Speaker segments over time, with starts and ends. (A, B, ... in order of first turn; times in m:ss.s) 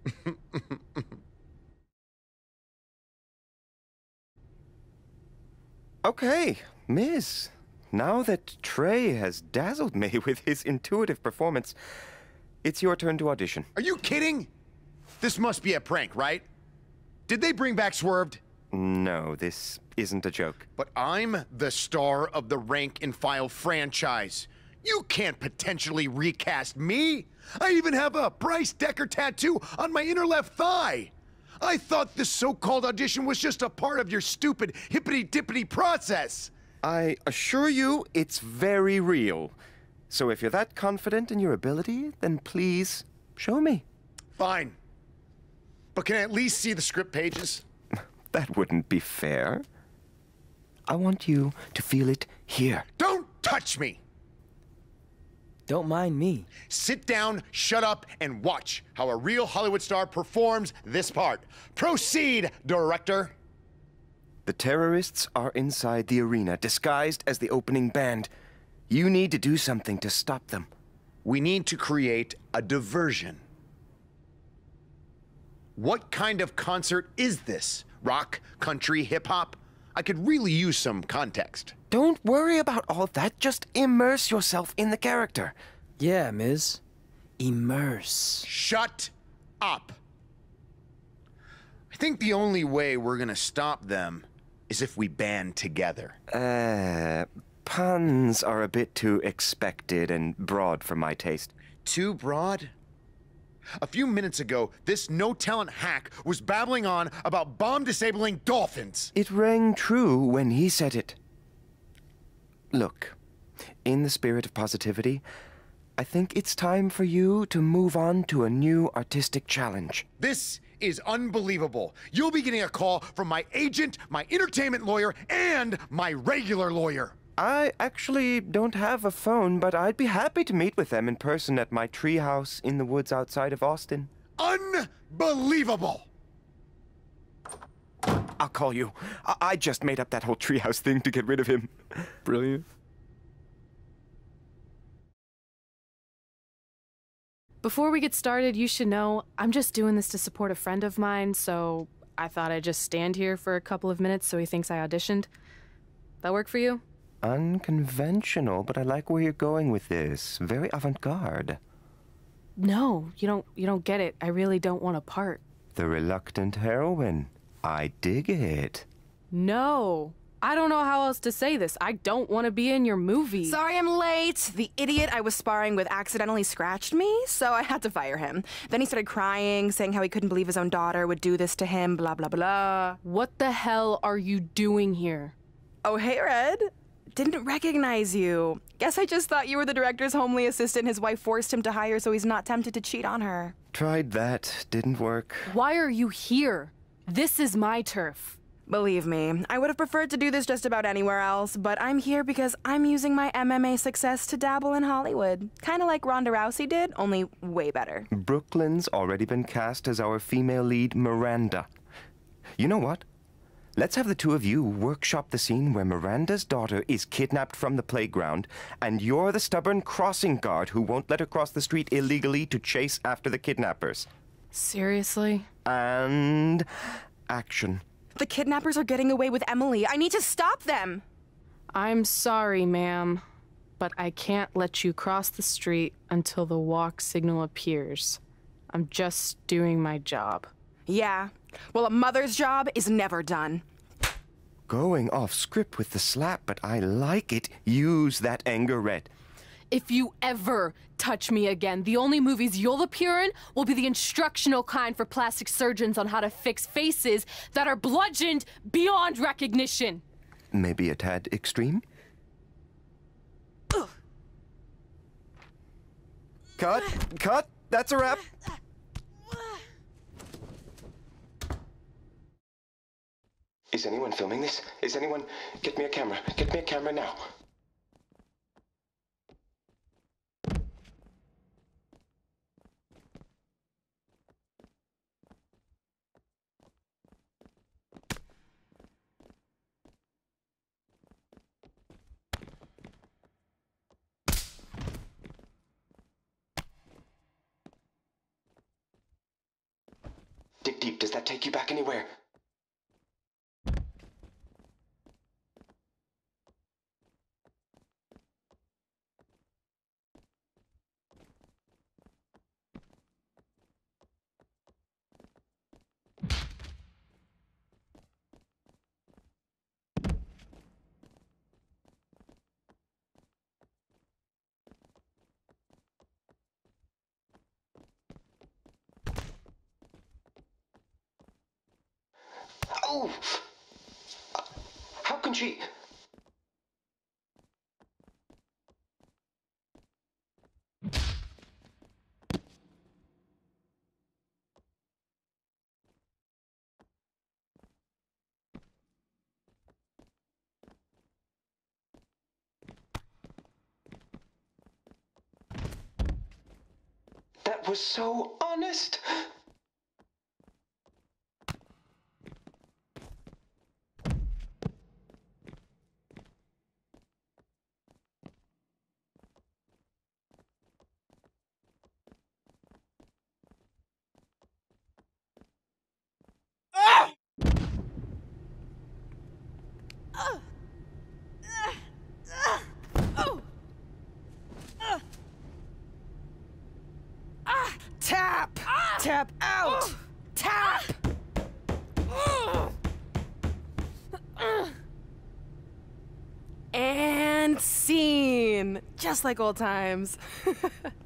0:00.2-0:01.0 A
0:06.0-0:11.8 B
0:12.6-0:13.7 B
0:13.8-0:14.5 A
0:15.2-0:16.4 A
0:17.3-0:18.4 A
0:18.7-0:20.7 B
0:20.8-0:36.5 A
0:36.8-0:39.6 B
0:40.1-0:43.8 B
0:44.4-0:44.8 A
0:45.9-0:47.6 A
0:48.3-0:49.6 B
0:50.9-0:52.8 B
0:53.0-0:54.0 A
0:55.7-0:56.5 C
0:56.7-1:03.3 A
1:04.4-1:08.3 B
1:08.9-1:10.7 B
1:11.2-1:13.4 A
1:15.8-1:21.7 A
1:21.9-1:25.6 B
1:26.0-1:26.8 C
1:27.4-1:28.5 C
1:28.4-1:30.0 A
1:31.9-1:36.2 A
1:36.3-1:41.5 B
1:41.8-1:42.7 A
1:43.8-1:49.1 A
1:49.1-1:51.2 B
1:52.7-1:53.2 B
1:53.8-1:55.2 B
1:56.0-2:00.0 B
2:00.2-2:07.1 A
2:07.4-2:14.1 B
2:14.4-2:16.1 A
2:18.4-2:22.1 B
2:22.2-2:22.6 C
2:27.6-2:35.3 D
2:36.2-2:36.8 D
2:37.2-2:41.6 B
2:42.6-2:45.4 D
2:45.8-2:48.9 B
2:49.3-2:53.6 D
2:53.5-3:03.0 E
3:03.0-3:05.3 D
3:05.8-3:13.5 E
3:13.7-3:15.5 B
3:15.5-3:18.4 D
3:18.7-3:28.1 E
3:28.1-3:31.6 B
3:32.6-3:33.0 B
3:33.8-3:44.1 B
3:44.5-3:45.4 D
3:45.6-3:46.6 B
3:47.3-3:47.8 B
3:48.2-3:51.0 E
3:51.8-3:53.2 D
3:53.8-3:58.2 D
3:58.7-4:00.5 D
4:00.9-4:03.6 E
4:04.7-4:09.1 B
4:09.7-4:20.0 D
4:20.5-4:21.8 B
4:26.6-4:28.3 B
4:33.7-4:37.3 B
5:00.6-5:02.1 B
5:32.7-5:33.5 B
5:35.0-5:35.7 B
5:57.4-5:59.3 B
6:27.5-6:31.0 E
6:36.7-6:40.9 E